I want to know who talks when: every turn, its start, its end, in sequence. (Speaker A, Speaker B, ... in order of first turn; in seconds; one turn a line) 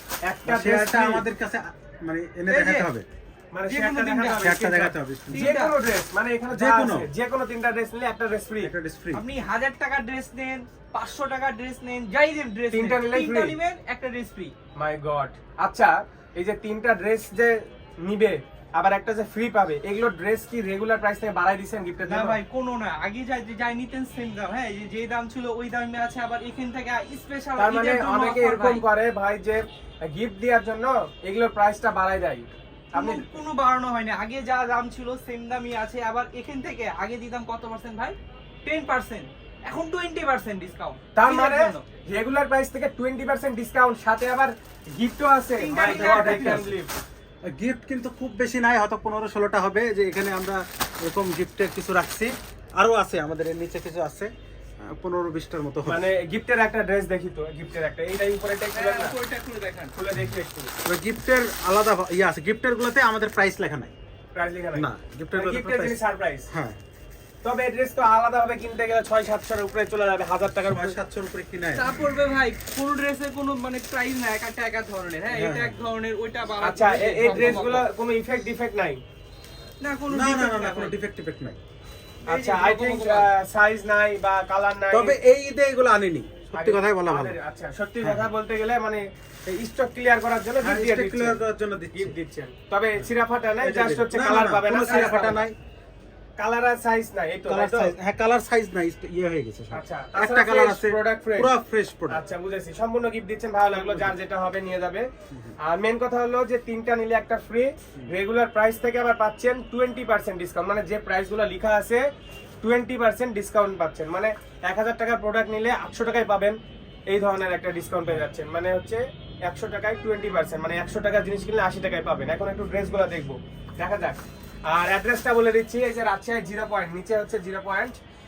Speaker A: 0.3-1.3
Speaker B: 0.5-3.1
Speaker C: 2.5-2.9
Speaker A: 3.5-8.7
Speaker C: 3.7-4.6
Speaker B: 4.4-5.5
Speaker C: 5.3-5.8
Speaker B: 6.5-7.1
Speaker B: 8.6-9.2
Speaker C: 9.1-14.5
Speaker A: 12.7-13.6
Speaker A: 14.8-22.4
Speaker C: 22.0-28.9
Speaker A: 27.6-33.2
Speaker C: 32.9-41.8
Speaker A: 41.1-46.9
Speaker C: 45.6-46.7
Speaker B: 45.8-46.7
Speaker B: 47.4-56.0
Speaker A: 55.8-59.1
Speaker C: 58.7-59.9
Speaker A: 60.0-60.7
Speaker B: 60.9-63.9
Speaker A: 64.3-66.5
Speaker B: 64.7-66.8
Speaker A: 67.4-71.0
Speaker B: 70.7-71.9
Speaker C: 71.7-77.9
Speaker B: 75.3-75.8
Speaker A: 76.6-79.0
Speaker C: 79.8-81.0
Speaker B: 80.1-81.6
Speaker C: 82.3-83.3
Speaker A: 82.3-85.2
Speaker B: 84.9-87.4
Speaker A: 86.5-91.4
Speaker B: 90.6-92.2
Speaker A: 91.9-95.5
Speaker B: 93.6-95.5
Speaker A: 96.4-97.9
Speaker B: 97.5-102.2
Speaker A: 99.7-101.5
Speaker A: 102.1-105.1
Speaker B: 103.8-104.1
Speaker B: 105.3-105.5
Speaker A: 105.6-112.0
Speaker A: 112.6-116.6
Speaker A: 117.1-128.0